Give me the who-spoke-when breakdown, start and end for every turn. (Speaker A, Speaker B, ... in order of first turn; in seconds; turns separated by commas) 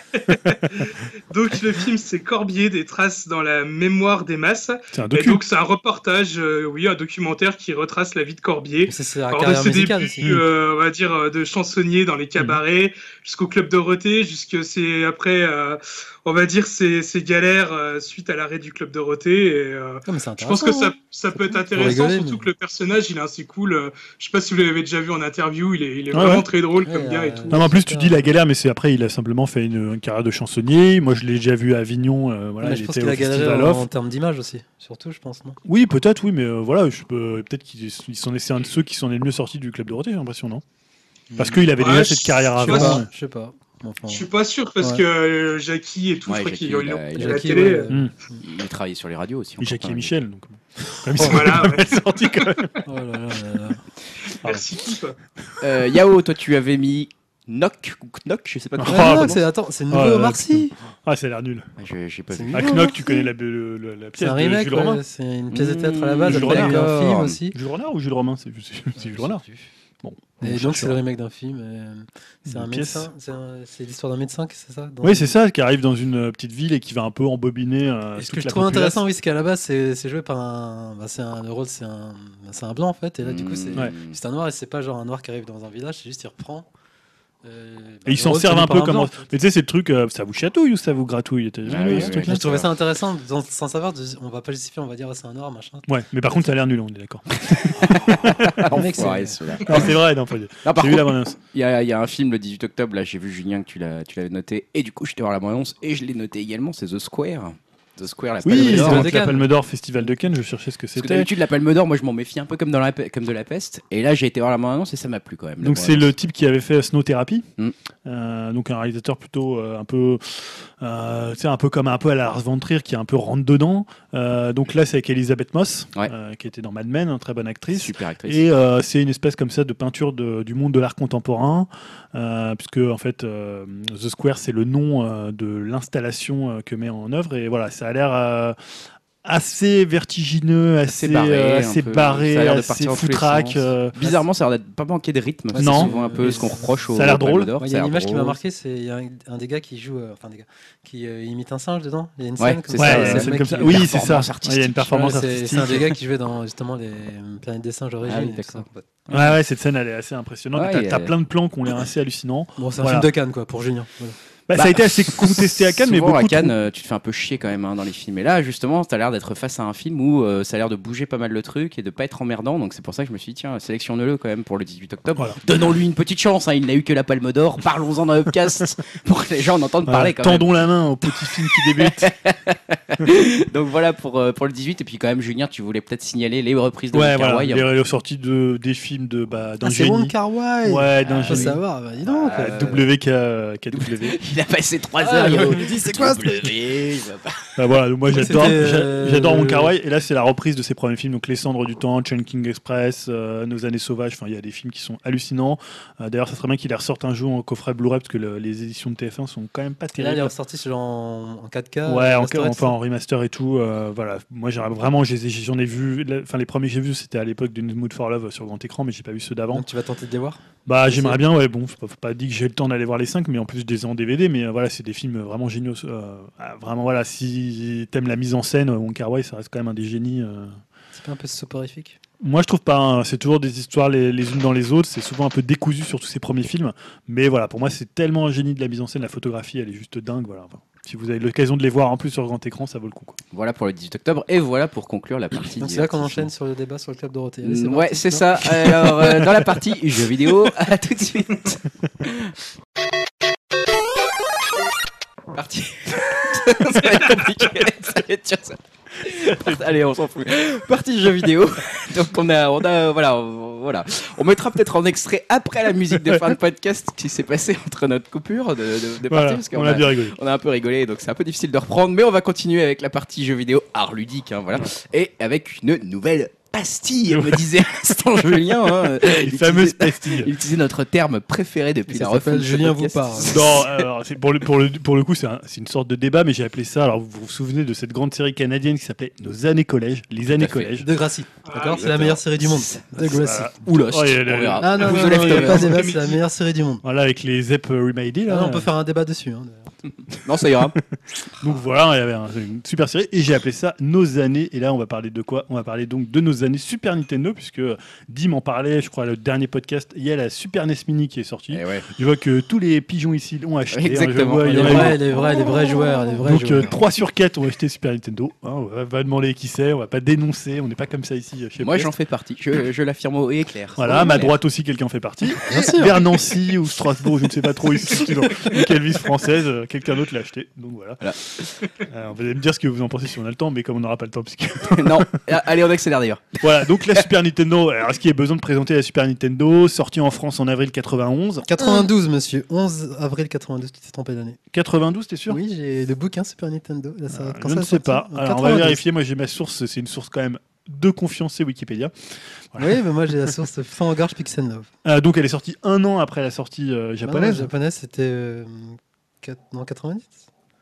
Speaker A: 0.1-27.6, Speaker B: 4.9-5.4, Speaker C: 8.9-10.3, Speaker C: 20.1-20.9, Speaker C: 21.5-22.5, Speaker B: 26.1-26.5, Speaker C: 26.9-28.3, Speaker B: 27.5-33.9, Speaker C: 32.6-35.6, Speaker B: 35.6-40.6, Speaker C: 41.3-41.7, Speaker B: 41.4-43.1, Speaker A: 41.8-43.0, Speaker C: 42.6-44.3, Speaker A: 44.1-47.9, Speaker D: 46.3-47.5, Speaker C: 47.2-48.4, Speaker D: 48.4-50.1, Speaker B: 49.6-52.8, Speaker C: 51.1-51.5, Speaker A: 51.2-52.7, Speaker C: 52.9-53.8, Speaker A: 54.3-55.2, Speaker D: 55.6-59.4, Speaker B: 58.8-59.4, Speaker C: 58.9-60.8, Speaker B: 59.9-61.7, Speaker D: 61.8-62.9, Speaker C: 62.3-63.3, Speaker B: 62.5-65.0, Speaker C: 64.2-67.6, Speaker D: 65.5-67.4, Speaker B: 66.3-66.9, Speaker B: 67.5-69.4, Speaker C: 69.0-69.7, Speaker B: 70.0-71.0, Speaker C: 70.4-75.3, Speaker B: 72.5-73.1, Speaker B: 75.0-79.0, Speaker C: 78.2-86.7, Speaker D: 83.2-84.2, Speaker C: 87.4-89.3, Speaker B: 88.1-92.6, Speaker D: 91.7-92.7, Speaker C: 91.9-95.9, Speaker B: 95.9-98.8, Speaker D: 97.5-100.0, Speaker C: 98.5-99.8, Speaker B: 99.7-101.4, Speaker D: 100.6-109.1, Speaker B: 108.4-111.3, Speaker C: 108.5-109.5, Speaker D: 111.0-116.1, Speaker B: 115.6-117.5, Speaker B: 118.1-138.6, Speaker D: 127.7-128.4, Speaker B: 139.2-144.1, Speaker D: 140.9-148.4, Speaker C: 145.5-146.8, Speaker B: 145.6-146.4, Speaker B: 146.9-147.5, Speaker C: 147.6-154.0, Speaker D: 152.4-155.1, Speaker B: 152.8-155.9, Speaker C: 154.9-158.9, Speaker D: 158.0-159.3, Speaker B: 159.1-163.1, Speaker D: 160.6-161.1, Speaker C: 162.6-164.2, Speaker B: 164.5-166.6, Speaker D: 164.6-180.6, Speaker B: 175.2-175.4, Speaker B: 179.9-182.1, Speaker D: 181.3-187.7, Speaker B: 186.9-190.1, Speaker C: 189.6-192.6, Speaker B: 190.7-191.6, Speaker D: 191.0-192.9, Speaker B: 192.3-194.2, Speaker D: 193.7-197.5, Speaker C: 195.0-196.5, Speaker B: 195.3-195.8, Speaker B: 197.6-210.3, Speaker C: 198.1-199.7, Speaker C: 210.0-212.7, Speaker B: 211.9-219.7, Speaker C: 219.5-221.2, Speaker B: 220.7-230.6, Speaker C: 230.9-232.0, Speaker B: 232.2-243.2, Speaker D: 243.3-246.3, Speaker C: 245.6-248.3, Speaker D: 247.4-252.3, Speaker B: 248.6-249.4, Speaker D: 255.3-283.8, Speaker B: 266.0-266.3, Speaker B: 269.1-270.2, Speaker B: 277.1-277.5, Speaker B: 278.5-280.3, Speaker C: 281.9-283.6, Speaker B: 283.2-290.9, Speaker D: 290.3-290.8, Speaker C: 290.8-293.6, Speaker A: 291.5-291.9, Speaker D: 291.6-295.8, Speaker B: 293.1-295.8, Speaker C: 294.6-296.8, Speaker A: 295.2-296.2, Speaker B: 296.8-298.7, Speaker C: 298.3-299.7, Speaker D: 300.1-300.8, Speaker B: 301.4-321.9, Speaker D: 311.5-311.9, Speaker D: 313.7-315.5, Speaker C: 314.4-316.8, Speaker D: 321.6-324.4, Speaker B: 323.8-331.2, Speaker C: 325.5-326.1, Speaker D: 331.0-331.4, Speaker B: 331.8-335.2, Speaker D: 334.7-337.1, Speaker B: 336.4-341.9, Speaker C: 341.5-344.4, Speaker B: 344.5-345.4, Speaker C: 345.3-348.8, Speaker B: 347.1-351.9, Speaker B: 352.5-353.3, Speaker C: 352.6-354.7, Speaker B: 354.9-357.5, Speaker C: 357.0-360.2